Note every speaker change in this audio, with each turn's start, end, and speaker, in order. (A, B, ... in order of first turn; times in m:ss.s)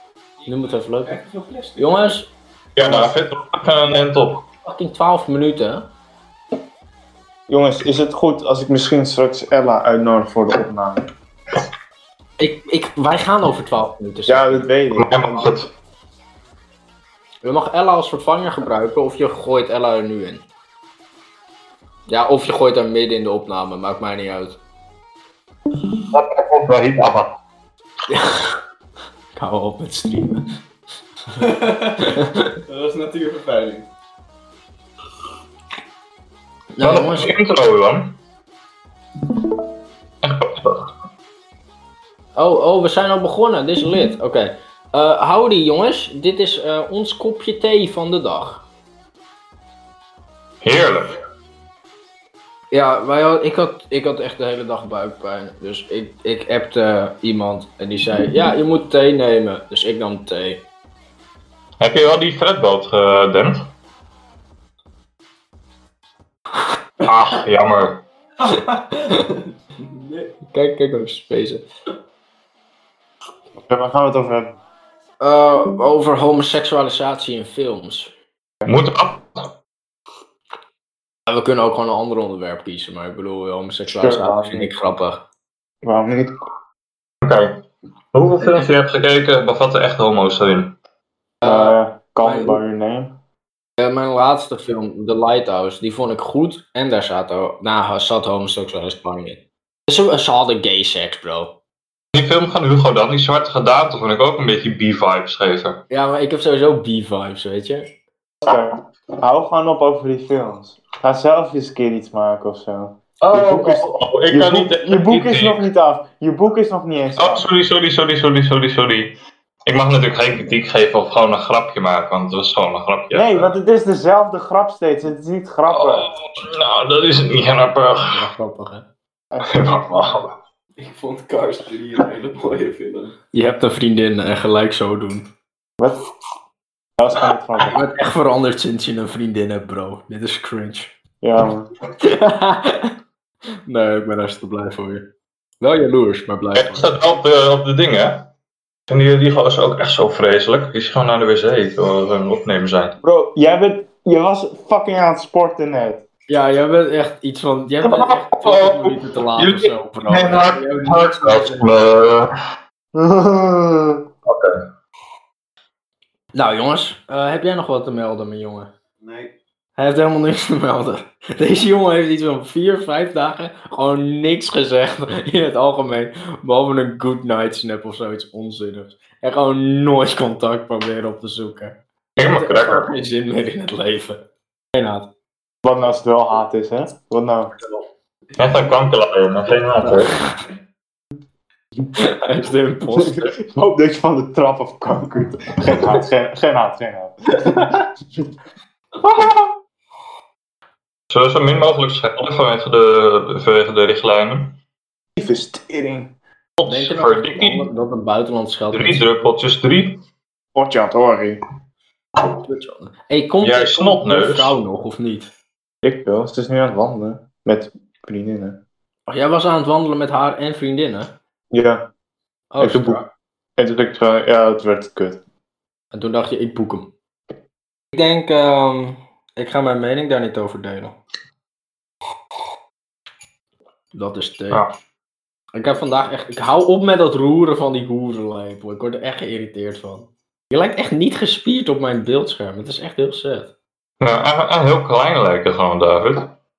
0:00.4-0:02.0 A
0:00.5-0:01.2 B
0:01.8-0:02.3 B
0:02.8-0:04.4 C
0:02.8-0:03.1 D
0:04.7-0:05.8 B
0:07.5-0:11.0 D
0:12.4-0:14.7 B
0:14.3-0:15.6 D
0:14.9-0:15.7 C
0:17.4-0:20.4 B
0:22.1-0:24.6 B
0:26.1-0:27.3 C
0:28.1-0:28.6 B
0:29.4-0:30.4 B
0:31.4-0:33.9 A
0:32.1-0:32.5 B
0:36.8-0:37.3 B
0:36.8-0:38.1 C
0:40.2-0:40.9 C
0:42.4-0:48.6 B
0:50.6-0:51.2 C
0:52.7-1:00.6 B
1:01.8-1:03.6 C
1:07.0-1:08.0 C
1:08.4-1:10.3 A
1:10.5-1:11.6 B
1:13.6-1:14.5 D
1:15.2-1:18.1 B
1:18.6-1:19.5 C
1:21.3-1:25.2 B
1:23.9-1:24.7 D
1:25.8-1:26.3 D
1:27.2-1:27.5 C
1:28.1-1:30.7 C
1:31.4-1:32.6 B
1:31.4-1:33.1 D
1:33.8-1:41.5 B
1:42.1-1:45.8 C
1:45.9-1:47.9 B
1:48.4-1:57.5 D
1:53.2-1:55.6 C
1:57.2-1:59.1 C
1:59.7-2:03.5 C
2:03.1-2:06.1 D
2:05.7-2:08.3 C
2:08.0-2:08.8 B
2:09.3-2:10.1 D
2:09.4-2:10.3 C
2:10.8-2:13.2 A
2:13.3-2:15.3 B
2:17.0-2:17.8 D
2:17.6-2:20.9 B
2:21.2-2:21.7 D
2:22.0-2:22.9 B
2:23.7-2:25.0 B
2:25.6-2:26.9 B
2:26.6-2:28.2 C
2:28.9-2:32.9 C
2:33.0-2:36.0 D
2:36.3-2:41.7 B
2:37.8-2:42.3 C
2:43.0-2:44.0 D
2:44.3-2:44.6 C
2:46.3-2:48.7 B
2:49.0-2:49.3 A
2:49.8-3:04.2 B
3:02.2-3:02.9 C
3:04.7-3:05.0 B
3:05.6-3:07.5 D
3:08.4-3:10.2 C
3:09.8-3:10.2 B
3:12.0-3:13.3 B
3:13.0-3:17.7 D
3:21.1-3:24.5 C
3:25.2-3:26.1 D
3:26.6-3:27.7 C
3:26.7-3:29.1 B
3:28.7-3:29.9 C
3:30.6-3:31.4 D
3:32.4-3:35.3 B
3:33.4-3:34.6 C
3:35.8-3:38.6 D
3:39.1-3:41.1 B
3:41.5-3:41.8 D
3:42.5-3:43.0 B
3:42.6-3:43.0 D
3:43.6-3:45.2 D
3:45.9-3:46.9 B
3:47.9-3:51.0 B
3:53.9-3:54.6 B
3:55.6-4:03.5 B
4:04.0-4:06.3 C